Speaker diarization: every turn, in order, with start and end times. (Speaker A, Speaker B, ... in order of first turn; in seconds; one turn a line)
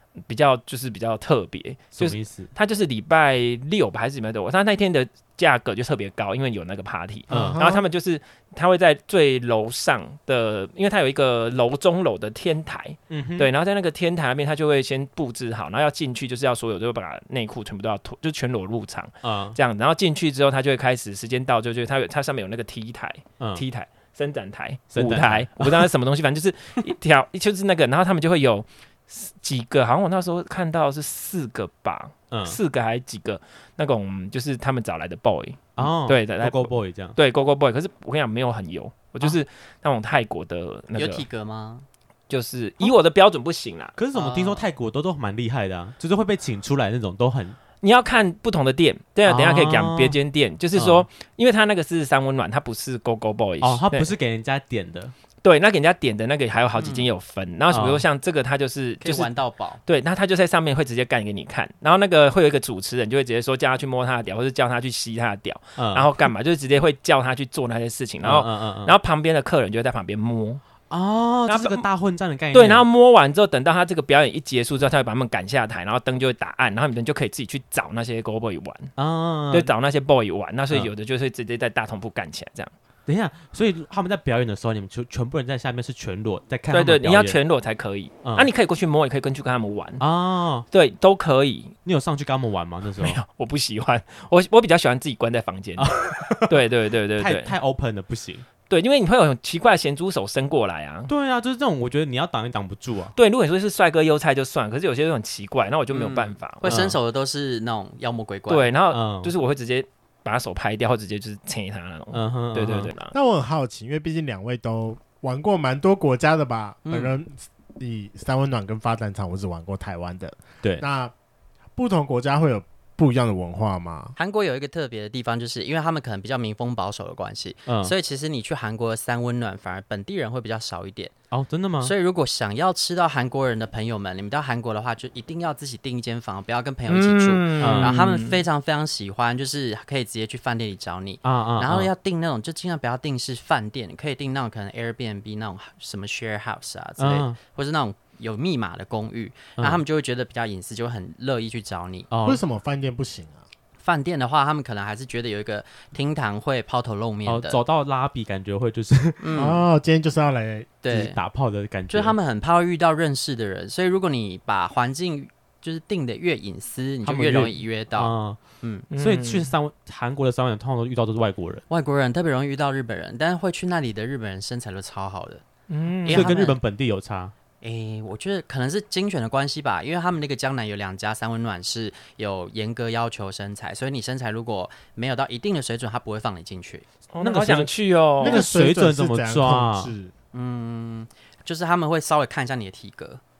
Speaker A: 0.2-41.2
Speaker B: 1.9-2.5
Speaker B: 7.3-7.6
Speaker C: 7.3-7.8
Speaker B: 13.1-13.5
Speaker B: 19.2-19.6
Speaker B: 24.9-25.9
Speaker B: 32.3-32.6
Speaker B: 35.8-37.1
Speaker D: 40.9-41.8
Speaker A: 42.3-44.0
Speaker B: 44.0-47.6
Speaker D: 44.1-44.6
Speaker A: 47.8-54.1
Speaker B: 49.2-50.1
Speaker B: 50.8-51.0
Speaker B: 53.6-55.1
Speaker A: 55.4-59.3
Speaker D: 56.8-57.1
Speaker B: 57.7-58.0
Speaker D: 59.0-59.8
Speaker A: 59.8-70.6
Speaker B: 65.8-66.1
Speaker B: 68.2-68.9
Speaker B: 70.9-72.8
Speaker A: 71.5-71.8
Speaker A: 72.5-78.9
Speaker B: 79.0-79.7
Speaker A: 79.5-82.7
Speaker B: 83.1-87.4
Speaker A: 86.7-90.0
Speaker B: 88.2-88.5
Speaker B: 90.0-90.7
Speaker A: 90.7-91.7
Speaker B: 91.8-93.2
Speaker A: 93.0-97.5
Speaker B: 95.8-96.5
Speaker B: 97.2-98.5
Speaker A: 98.7-101.1
Speaker B: 101.1-103.1
Speaker A: 103.2-106.7
Speaker D: 105.9-108.7
Speaker B: 106.6-107.0
Speaker A: 108.5-113.1
Speaker B: 108.9-109.3
Speaker B: 112.1-112.9
Speaker C: 113.1-121.1
Speaker D: 116.9-117.1
Speaker C: 121.8-124.1
Speaker D: 124.2-131.2
Speaker B: 127.7-127.9
Speaker B: 131.3-131.9
Speaker D: 131.8-152.1
Speaker A: 136.9-138.4
Speaker B: 137.6-137.9
Speaker B: 141.2-141.9
Speaker B: 147.0-147.4
Speaker B: 149.6-149.8
Speaker B: 152.1-152.4
Speaker C: 152.2-153.4
Speaker D: 153.8-157.6
Speaker B: 157.2-159.3
Speaker D: 159.2-159.6
Speaker C: 159.3-160.7
Speaker D: 160.8-161.2
Speaker B: 160.9-162.2
Speaker D: 161.9-168.8
Speaker B: 167.0-168.4
Speaker A: 168.9-169.5
Speaker B: 168.9-171.6
Speaker D: 171.7-175.4
Speaker A: 175.7-176.4
Speaker D: 176.0-176.6
Speaker B: 176.1-177.3
Speaker D: 177.6-186.8
Speaker A: 187.1-188.4
Speaker B: 187.2-189.9
Speaker C: 188.2-190.1
Speaker D: 190.3-193.2